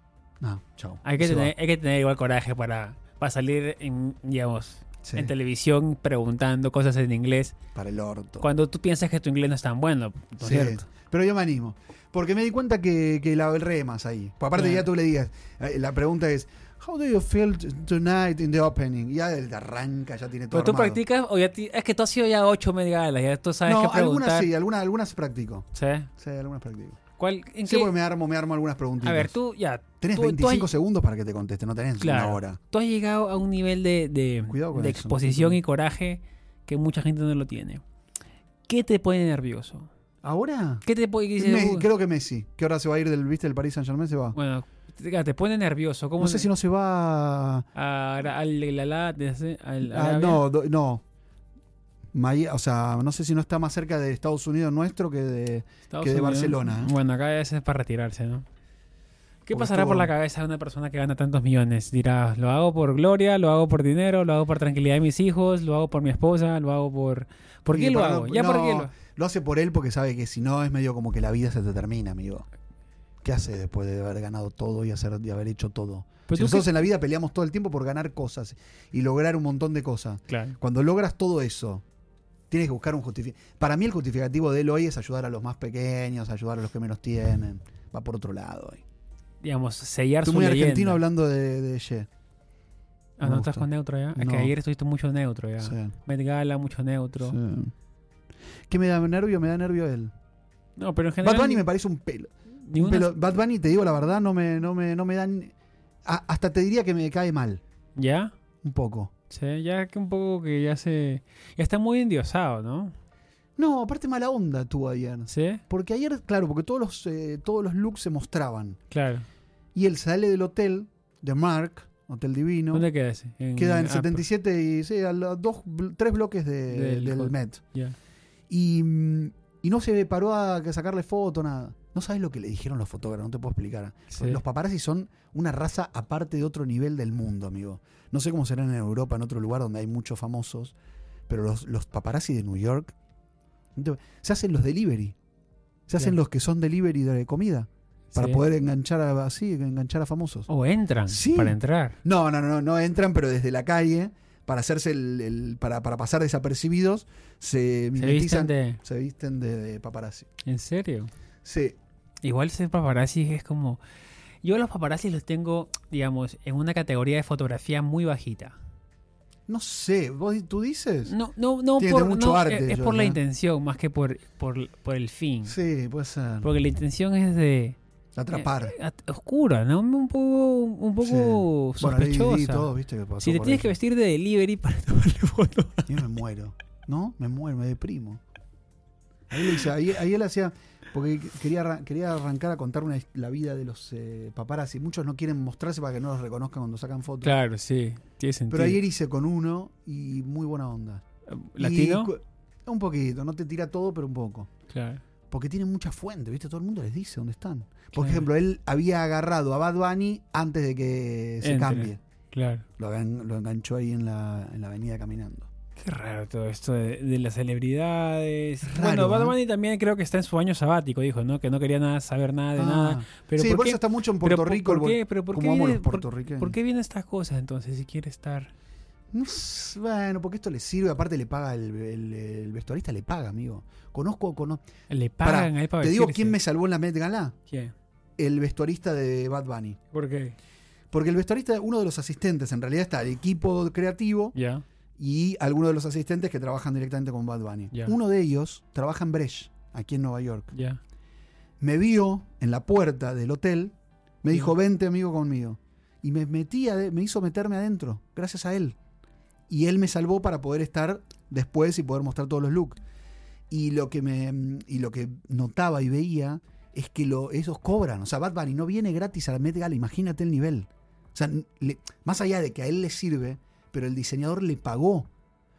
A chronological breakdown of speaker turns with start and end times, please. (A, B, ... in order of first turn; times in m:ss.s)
0:00.4-0:01.5 A
0:01.0-0:07.6 B
0:05.0-0:05.3 A
0:07.8-0:08.5 A
0:08.4-0:10.8 B
0:10.4-0:21.0 A
0:14.6-0:14.9 B
0:20.5-0:24.5 B
0:23.6-0:25.7 A
0:25.7-0:26.1 B
0:26.2-0:27.0 A
0:27.2-0:27.9 B
0:27.6-0:29.4 A
0:29.0-0:30.7 B
0:30.0-0:32.6 A
0:32.0-0:37.8 B
0:34.5-0:35.6 A
0:38.7-0:39.9 B
0:40.2-0:40.8 A
0:40.8-0:41.9 B
0:41.4-0:44.4 A
0:44.3-0:46.5 B
0:46.2-0:47.7 A
0:47.8-0:50.4 B
0:49.8-0:51.0 A
0:52.1-0:56.9 A
0:55.9-0:58.5 B
0:59.5-1:08.9 B
0:59.5-1:00.1 A
1:07.7-1:12.5 A
1:13.2-1:21.8 A
1:16.3-1:16.7 B
1:20.3-1:20.6 B
1:22.5-1:28.8 A
1:29.4-1:31.0 B
1:30.2-1:32.1 A
1:33.2-1:37.4 B
1:33.2-1:34.5 A
1:35.6-1:35.9 A
1:37.2-1:37.7 A
1:38.7-1:40.1 A
1:40.8-1:41.7 B
1:41.2-1:45.5 A
1:42.7-1:43.1 B
1:46.0-1:47.6 A
1:48.0-1:48.3 B
1:48.6-1:49.1 A
1:49.3-1:52.9 B
1:53.6-1:58.8 A
1:55.3-1:55.6 B
1:58.9-1:59.3 B
1:59.7-2:02.9 A
2:02.7-2:04.2 B
2:03.6-2:07.6 A
2:06.7-2:08.0 B
2:08.5-2:20.7 A
2:14.1-2:14.4 B
2:21.3-2:22.9 A
2:23.8-2:25.2 A
2:25.9-2:30.5 A
2:28.1-2:28.4 B
2:30.5-2:32.0 B
2:31.1-2:40.3 A
2:38.0-2:38.8 B
2:40.4-2:41.1 B
2:41.4-2:41.8 A
2:42.2-2:43.8 B
2:44.4-2:48.6 B
2:49.5-2:51.1 A
2:51.1-2:55.6 B
2:51.8-2:53.2 A
2:55.5-2:56.5 A
2:56.4-2:57.8 B
2:58.2-2:58.8 A
2:58.3-3:02.7 B
3:01.0-3:03.8 A
3:03.2-3:06.0 B
3:05.9-3:08.2 A
3:09.3-3:17.3 A
3:17.2-3:18.8 B
3:18.5-3:21.0 A
3:21.3-3:22.1 B
3:21.6-3:24.5 A
3:24.7-3:25.0 B
3:25.3-3:32.0 A
3:28.0-3:28.3 B
3:31.4-3:32.6 B
3:32.8-3:35.5 A
3:35.8-3:48.5 B
3:38.6-3:39.4 A
3:42.6-3:46.6 A
3:49.1-3:54.6 A
3:54.9-3:56.4 B
3:55.2-3:57.4 A
3:57.5-3:57.7 B
3:58.2-3:59.8 A
3:59.9-4:00.4 B
4:00.9-4:04.4 A
4:04.4-4:04.6 B
4:05.0-4:10.5 A
4:10.5-4:10.8 B
4:11.6-4:18.8 A
4:19.5-4:22.8 A
4:23.5-4:35.1 A